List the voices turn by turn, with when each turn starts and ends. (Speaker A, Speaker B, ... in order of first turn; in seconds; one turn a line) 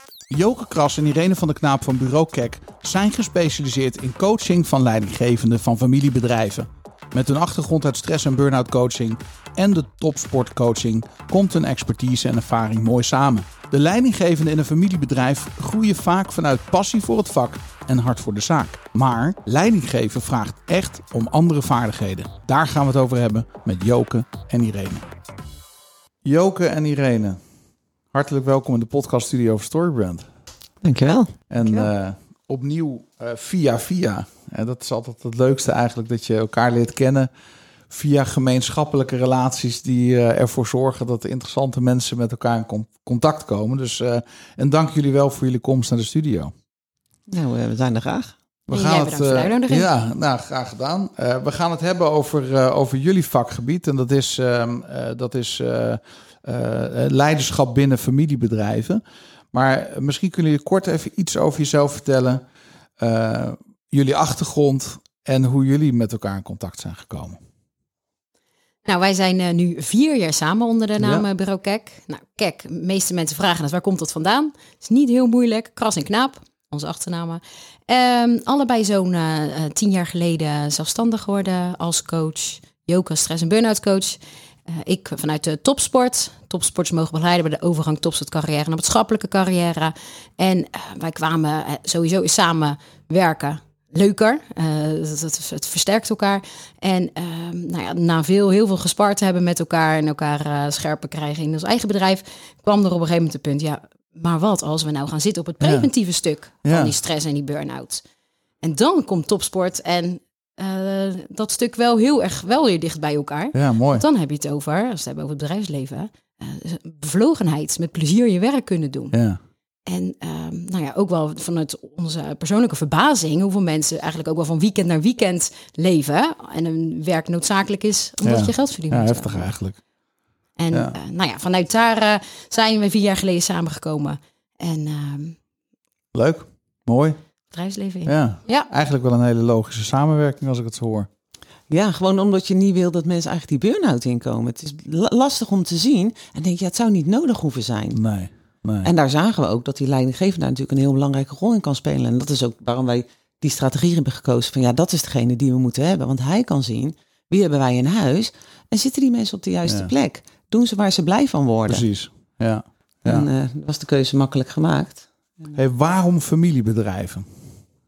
Speaker A: 0.3-25.1
Speaker A: 26.2-27.4
Speaker A: 28.1-30.3
Speaker B: 30.8-31.4
Speaker A: 31.5-37.3
Speaker A: 37.9-46.5
Speaker B: 47.3-48.3
Speaker A: 48.7-59.0
Speaker C: 48.7-49.9
Speaker A: 59.5-62.4
Speaker A: 63.0-67.4
Speaker C: 68.8-108.0
Speaker A: 71.0-71.2
Speaker A: 105.6-105.9
Speaker A: 106.6-106.9
Speaker C: 108.6-119.1
Speaker A: 113.5-114.0
Speaker A: 119.1-119.4
Speaker C: 119.9-129.5
Speaker A: 128.2-129.8
Speaker C: 130.6-135.4
Speaker A: 136.1-137.2
Speaker C: 137.5-138.7
Speaker A: 138.1-141.1
Speaker B: 141.7-148.0
Speaker A: 147.9-148.9
Speaker B: 148.8-161.8
Speaker A: 159.7-159.9
Speaker A: 161.7-163.3
Speaker B: 163.1-165.6
Speaker A: 165.6-167.4